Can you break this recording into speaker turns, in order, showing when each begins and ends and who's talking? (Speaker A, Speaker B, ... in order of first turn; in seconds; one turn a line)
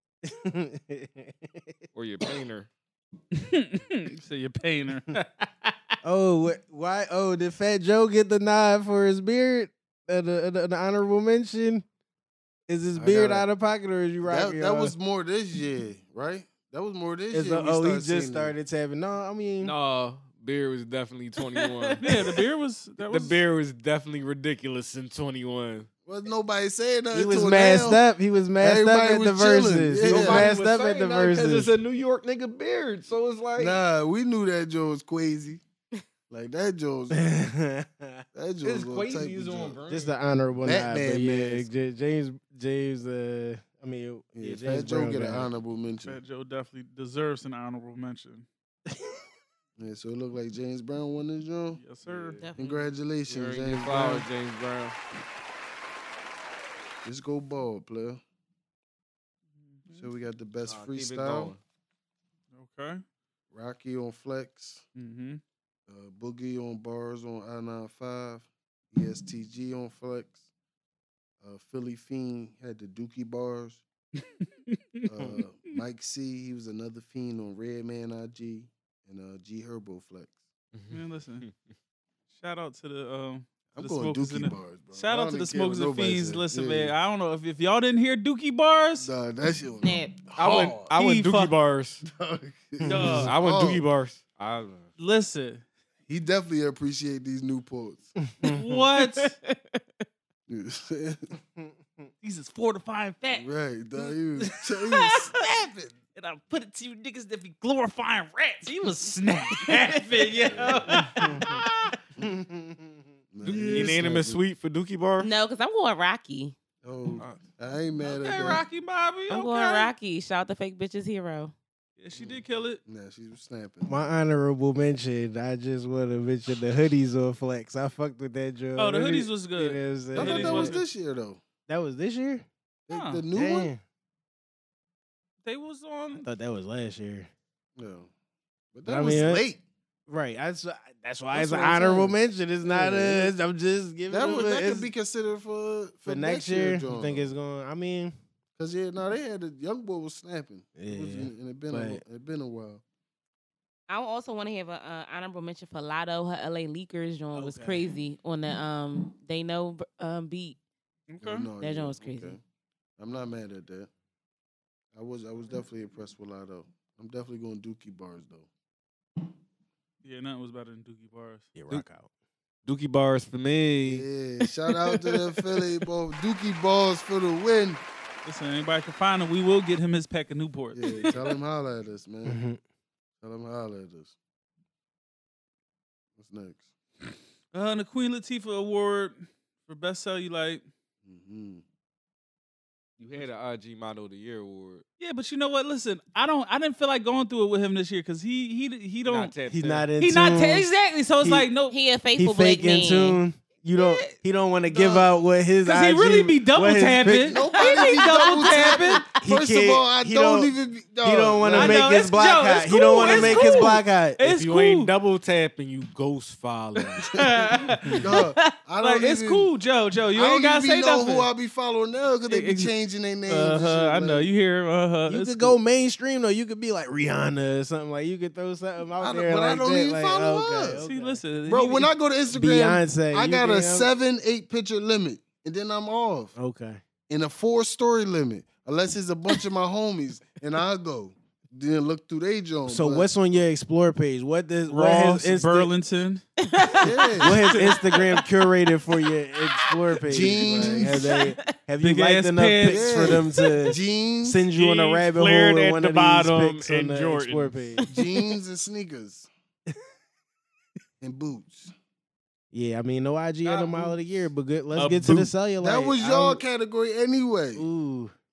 Speaker A: 0.2-1.7
Speaker B: 1.9-2.7
Speaker C: 3.3-5.8
Speaker A: 6.0-11.8
Speaker A: 12.7-14.9
Speaker D: 12.9-13.5
Speaker D: 14.2-18.5
Speaker A: 17.3-19.7
Speaker B: 19.6-22.0
Speaker C: 22.0-23.4
Speaker B: 23.1-25.9
Speaker D: 26.1-28.0
Speaker A: 27.1-31.7
Speaker D: 28.6-30.5
Speaker B: 30.0-33.8
Speaker D: 33.6-35.6
Speaker D: 36.3-37.3
Speaker A: 37.1-38.2
Speaker D: 38.3-39.8
Speaker B: 38.6-40.1
Speaker A: 39.9-45.5
Speaker D: 40.6-41.7
Speaker D: 44.4-46.2
Speaker C: 46.0-48.5
Speaker D: 49.8-51.8
Speaker C: 51.8-52.4
Speaker B: 52.1-52.5
Speaker E: 52.4-52.9
Speaker D: 52.6-54.3
Speaker B: 53.3-55.0
Speaker D: 57.0-58.2
Speaker C: 59.8-60.1
Speaker D: 59.9-61.5
Speaker B: 60.7-61.6
Speaker C: 62.5-63.0
Speaker D: 63.5-64.8
Speaker C: 65.0-65.4
Speaker D: 65.9-70.4
Speaker D: 71.4-73.8
Speaker C: 74.2-75.4
Speaker D: 75.1-80.3
Speaker B: 80.7-81.5
Speaker C: 80.9-81.5
Speaker C: 82.4-89.1
Speaker D: 83.7-86.9
Speaker D: 89.0-90.9
Speaker E: 89.8-90.2
Speaker B: 90.3-92.0
Speaker C: 90.9-91.5
Speaker D: 92.0-93.8
Speaker C: 92.8-93.3
Speaker B: 93.0-94.9
Speaker C: 95.0-95.6
Speaker D: 96.1-98.2
Speaker A: 98.3-98.8
Speaker C: 98.4-99.3
Speaker D: 100.5-101.3
Speaker C: 102.2-103.5
Speaker D: 103.3-105.9
Speaker C: 104.4-105.6
Speaker C: 106.1-111.9
Speaker B: 110.5-111.0
Speaker A: 111.2-111.6
Speaker A: 112.2-113.0
Speaker D: 113.3-114.4
Speaker B: 113.4-115.3
Speaker C: 113.5-113.9
Speaker E: 115.2-116.5
Speaker D: 116.8-118.6
Speaker C: 118.0-119.9
Speaker E: 119.3-121.5
Speaker C: 122.0-122.8
Speaker D: 122.2-124.0
Speaker A: 123.8-130.8
Speaker C: 128.8-130.8
Speaker D: 130.2-131.4
Speaker A: 131.7-132.5
Speaker D: 132.9-133.7
Speaker C: 132.9-133.2
Speaker A: 133.3-133.8
Speaker C: 135.4-136.3
Speaker A: 136.2-137.3
Speaker D: 137.8-138.1
Speaker D: 138.7-139.6
Speaker A: 138.9-139.4
Speaker A: 140.1-144.9
Speaker D: 141.3-142.1
Speaker D: 142.7-143.3
Speaker D: 144.1-147.3
Speaker A: 146.1-148.2
Speaker D: 148.6-152.8
Speaker A: 150.8-152.0
Speaker E: 153.9-160.6
Speaker A: 157.3-157.8
Speaker C: 161.1-161.5
Speaker D: 161.2-162.4
Speaker E: 161.6-162.4
Speaker D: 163.0-163.9
Speaker D: 164.9-168.5
Speaker C: 170.0-171.5
Speaker A: 171.6-172.1
Speaker B: 172.7-174.1
Speaker D: 173.9-177.8
Speaker C: 178.2-181.2
Speaker D: 180.7-182.4
Speaker A: 182.2-182.6
Speaker D: 183.2-184.2
Speaker D: 186.2-186.7
Speaker C: 187.5-190.6
Speaker D: 191.1-191.6
Speaker B: 193.0-194.8
Speaker C: 195.0-199.3
Speaker B: 199.1-199.9
Speaker A: 199.5-200.7
Speaker C: 200.0-201.8
Speaker A: 201.2-201.5
Speaker E: 201.7-203.2
Speaker A: 202.2-207.4
Speaker E: 203.8-204.1
Speaker C: 204.7-205.0
Speaker C: 205.6-209.0
Speaker D: 207.3-211.9
Speaker E: 207.5-209.1
Speaker A: 209.2-210.5
Speaker A: 211.0-214.2
Speaker C: 211.5-214.9
Speaker B: 214.2-217.2
Speaker C: 217.0-221.3
Speaker D: 218.0-219.5
Speaker D: 220.1-224.3
Speaker C: 222.3-222.7
Speaker C: 223.3-225.6
Speaker A: 225.1-231.2
Speaker D: 229.0-230.8
Speaker C: 230.8-231.9
Speaker D: 231.5-236.3
Speaker A: 232.3-233.9
Speaker A: 236.4-236.8
Speaker D: 237.1-243.1
Speaker A: 242.7-245.7
Speaker C: 244.7-246.8
Speaker E: 246.4-248.3
Speaker D: 246.8-247.6
Speaker A: 247.2-257.8
Speaker C: 247.5-247.8
Speaker D: 250.1-251.2
Speaker E: 250.8-251.5
Speaker C: 251.8-253.1
Speaker D: 252.7-254.4
Speaker B: 254.6-257.7
Speaker C: 254.6-255.1
Speaker E: 257.8-258.1
Speaker D: 257.9-259.3
Speaker D: 261.0-261.7
Speaker A: 262.5-266.4
Speaker B: 263.4-264.0
Speaker B: 264.8-265.3
Speaker D: 265.6-267.7
Speaker A: 267.6-268.1